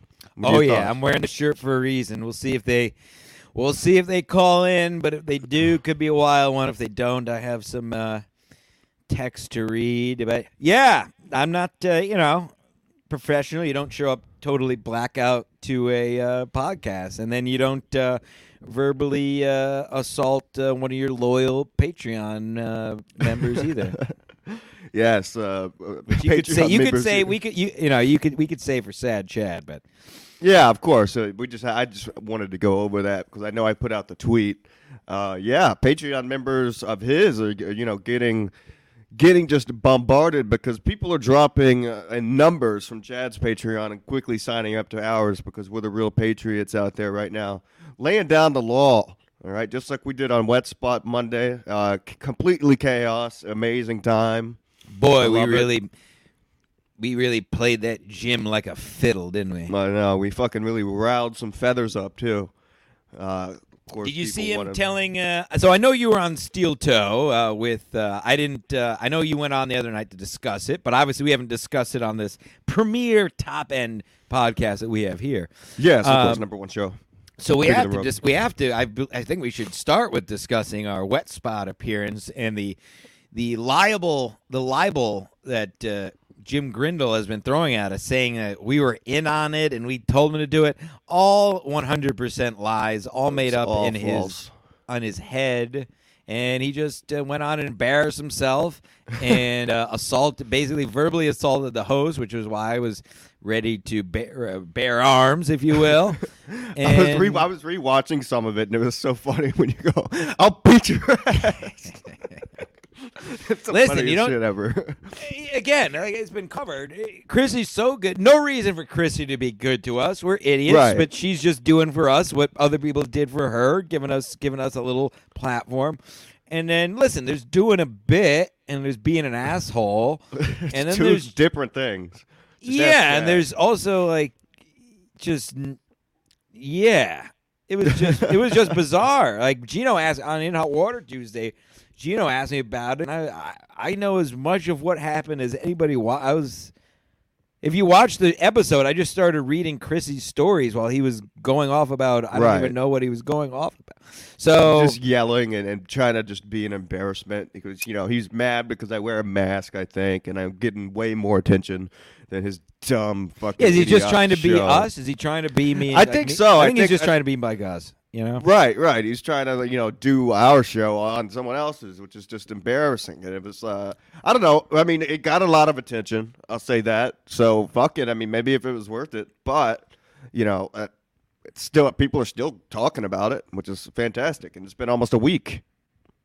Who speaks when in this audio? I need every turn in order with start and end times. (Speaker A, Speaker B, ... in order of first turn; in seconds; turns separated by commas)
Speaker A: 0.4-0.9, Speaker B: 0.4-2.9, Speaker B: 3.5-8.2, Speaker B: 9.1-12.5, Speaker B: 13.1-24.0, Speaker A: 23.5-27.4, Speaker B: 26.1-29.8, Speaker A: 30.4-38.5, Speaker A: 39.1-54.6, Speaker B: 54.9-55.9, Speaker A: 55.2-55.7, Speaker B: 57.0-59.7, Speaker A: 59.7-62.5, Speaker A: 63.1-64.8, Speaker B: 64.0-75.5, Speaker A: 75.8-77.0, Speaker B: 76.0-76.4, Speaker B: 77.4-82.8, Speaker A: 77.6-78.1, Speaker B: 83.3-94.4, Speaker A: 93.3-94.5, Speaker B: 94.9-106.3, Speaker A: 106.5-112.0, Speaker B: 106.8-107.5, Speaker A: 113.2-115.1, Speaker B: 113.7-114.4, Speaker B: 115.2-126.0, Speaker A: 120.7-121.1, Speaker B: 126.5-131.3, Speaker A: 130.4-133.4, Speaker B: 132.6-134.3, Speaker B: 135.2-135.8, Speaker B: 136.5-146.7, Speaker A: 137.9-138.8, Speaker B: 147.6-155.0, Speaker A: 152.3-152.7, Speaker A: 154.7-164.9, Speaker B: 163.6-168.4, Speaker A: 165.9-167.1, Speaker A: 168.4-180.9, Speaker A: 181.5-185.6